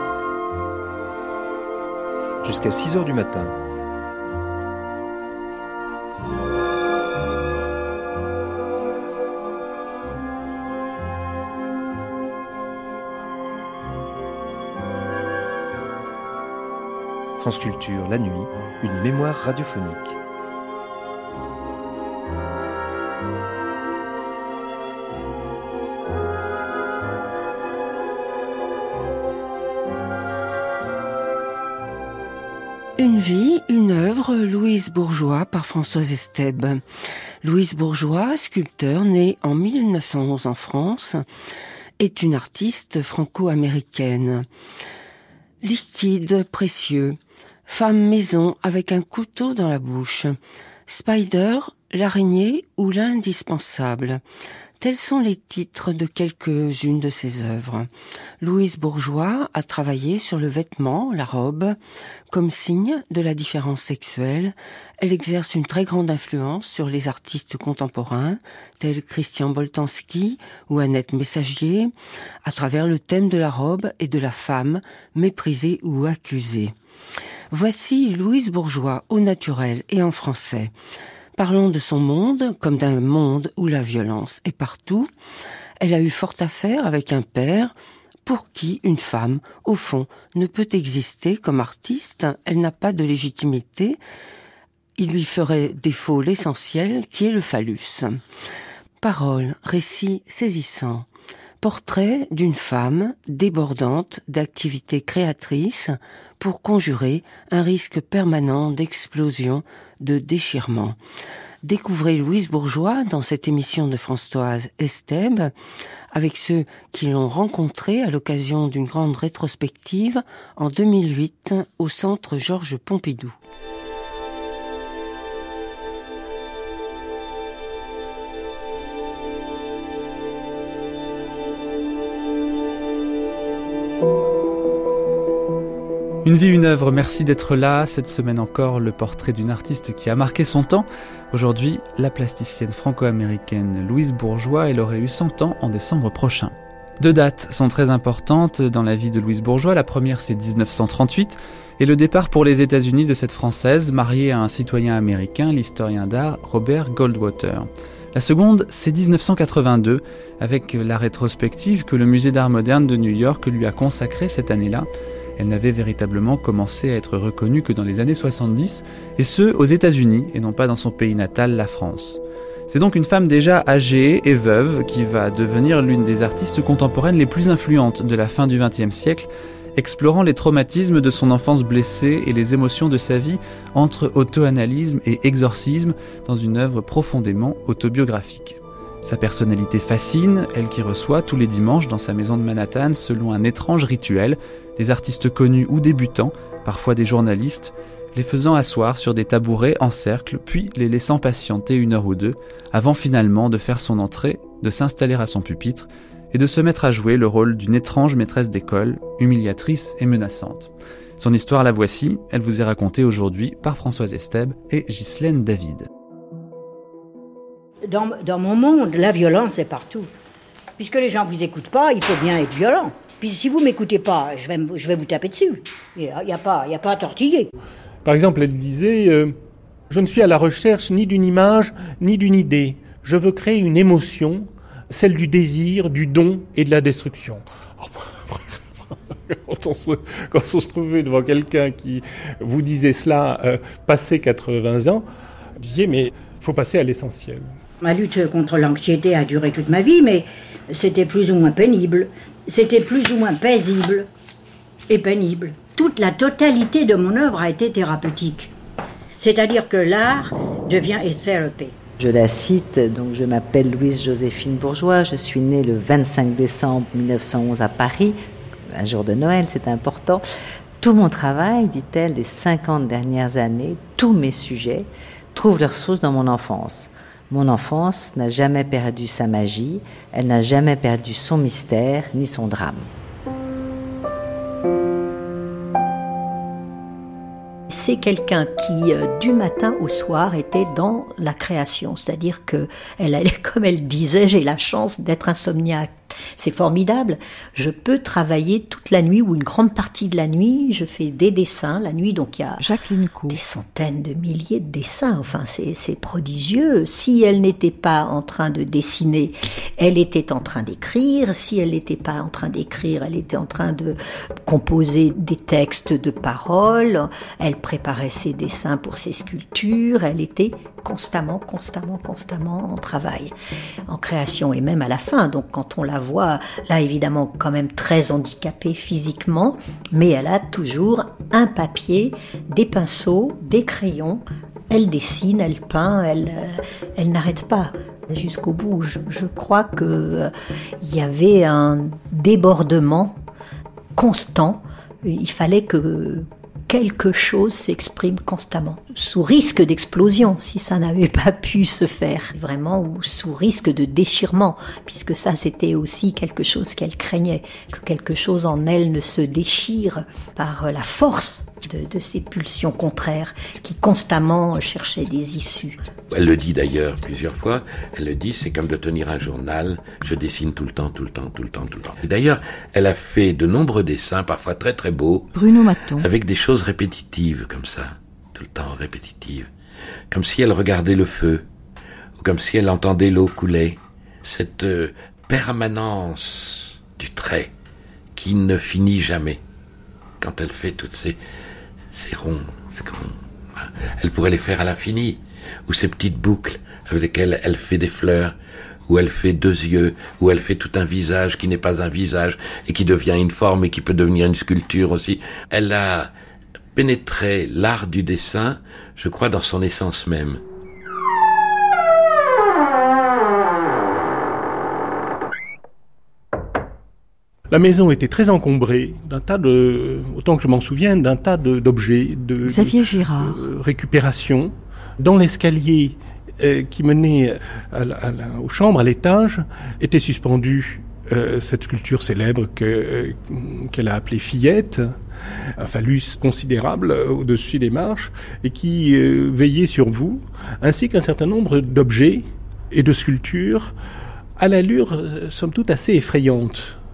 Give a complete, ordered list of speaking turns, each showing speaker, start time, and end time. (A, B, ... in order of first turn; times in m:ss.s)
0:02.4-0:03.5 A
0:17.4-0:20.2 A
0:33.0-0:36.8 B
0:37.4-0:41.2 B
0:42.0-0:44.5 B
0:45.6-0:54.2 B
0:54.8-0:57.9 B
0:58.4-1:01.8 B
1:02.3-1:11.9 B
1:12.4-1:16.7 B
1:17.5-1:20.7 B
1:21.4-1:25.1 B
1:25.8-1:27.7 B
1:28.2-1:34.0 B
1:35.0-1:38.2 B
1:39.0-1:41.1 B
1:41.6-1:51.0 B
1:51.6-1:55.5 B
1:56.1-2:03.3 B
2:16.2-3:35.9 C
3:37.8-3:40.1 D
3:40.8-3:47.5 D
3:48.0-3:49.3 E
3:49.9-4:05.0 E
4:05.6-4:07.5 E
4:07.8-4:14.1 D
4:14.9-4:18.5 D
4:19.2-4:21.7 D
4:22.0-4:28.2 F
4:28.7-4:30.2 F
4:30.8-4:42.9 F
4:47.7-5:02.7 G
5:02.6-5:03.4 H
5:03.3-5:23.3 G
5:23.9-5:43.2 G
5:44.0-6:05.8 G
6:06.1-6:15.4 I
6:15.3-6:16.1 H
6:16.0-6:19.5 I
6:20.1-6:21.4 I
6:22.2-6:27.5 I
6:28.2-6:29.4 I
6:30.2-6:31.2 I
6:31.9-6:38.3 I
6:38.9-6:46.1 I
6:46.7-6:50.4 I
6:57.5-7:15.0 E
7:02.4-7:03.4 H
7:15.6-7:23.7 E
7:24.4-7:26.8 E